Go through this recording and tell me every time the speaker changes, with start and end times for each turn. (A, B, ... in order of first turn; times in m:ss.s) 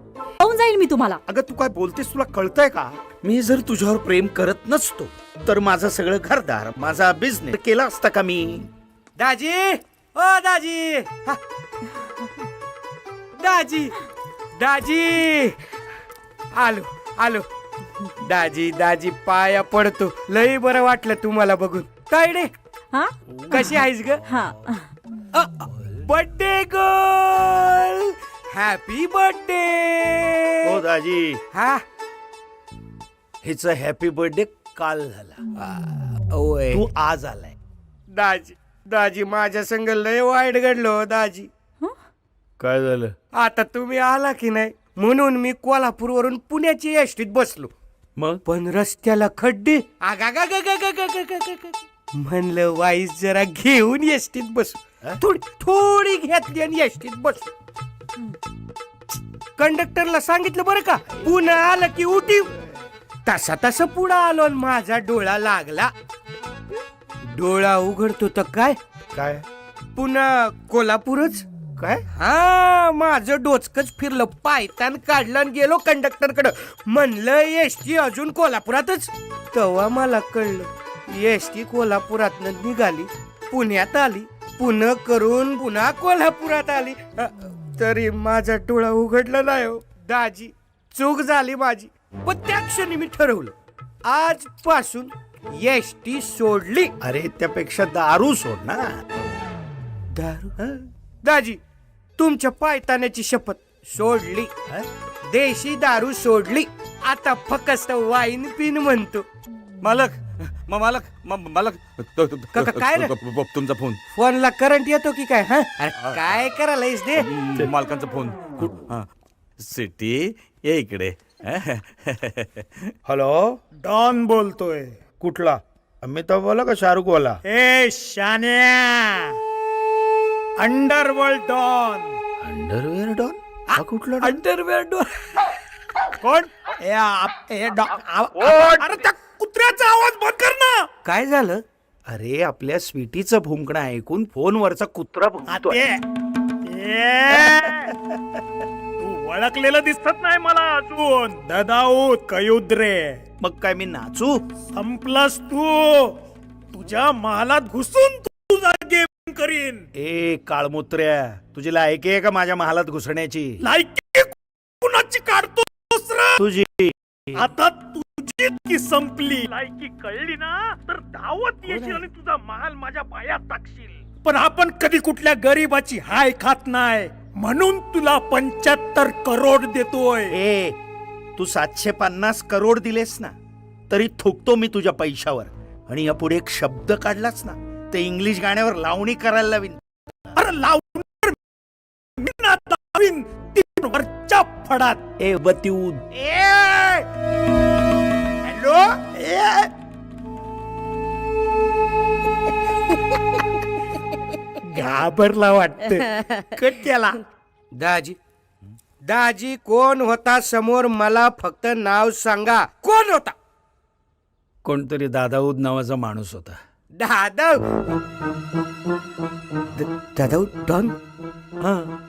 0:00.4-0:01.2 A
0:01.3-0:02.9 B
0:03.0-0:08.7 C
0:09.2-0:11.4 D
0:13.4-0:14.0 D
0:14.6-0:15.6 D
0:16.5-0:17.5 D
0:18.2-0:22.5 D
0:22.9-0:24.9 A
0:23.5-0:24.2 D
0:25.3-0:30.8 D
0:30.6-0:31.4 C
0:31.5-0:31.8 D
0:33.4-0:35.5 C
0:35.6-0:36.8 D
0:36.7-0:37.6 C
0:38.1-0:41.5 D
0:42.6-0:43.1 C
0:43.3-0:47.7 D
0:48.2-0:48.4 C
0:48.5-0:57.5 D
0:59.6-1:02.5 D
1:03.3-1:05.9 D
1:07.3-1:08.8 D
1:09.2-1:09.4 C
1:10.0-1:11.4 D
1:11.8-1:12.0 C
1:12.1-1:33.5 D
1:34.0-1:36.9 D
1:37.0-1:38.9 C
1:40.1-1:40.6 D
1:41.2-1:41.6 D
1:42.2-1:44.5 D
1:45.2-1:49.3 D
1:49.8-1:54.0 E
1:52.5-1:53.2 D
1:54.1-1:57.3 D
1:56.0-1:56.4 E
1:57.4-1:59.1 E
1:59.6-2:02.8 E
2:03.1-2:03.6 C
2:03.8-2:05.1 B
2:05.2-2:07.4 C
2:07.4-2:09.4 B
2:10.6-2:12.2 B
2:12.4-2:14.4 C
2:13.7-2:15.5 D
2:16.2-2:20.9 B
2:21.0-2:21.6 D
2:22.1-2:25.8 C
2:25.5-2:26.0 B
2:26.6-2:27.9 B
2:29.0-2:33.2 B
2:33.4-2:34.4 C
2:34.7-2:36.2 B
2:36.7-2:39.9 B
2:40.0-2:43.6 C
2:43.6-2:46.4 B
2:46.4-2:47.5 C
2:47.4-3:00.3 B
3:00.3-3:00.8 C
3:01.4-3:03.3 C
3:03.9-3:09.8 C
3:10.4-3:15.1 B
3:15.2-3:16.1 C
3:16.2-3:17.0 D
3:18.5-3:19.7 B
3:24.7-3:27.2 B
3:27.7-3:28.2 D
3:29.0-3:33.4 D
3:34.6-3:36.6 C
3:36.9-3:37.7 D
3:39.8-3:41.0 D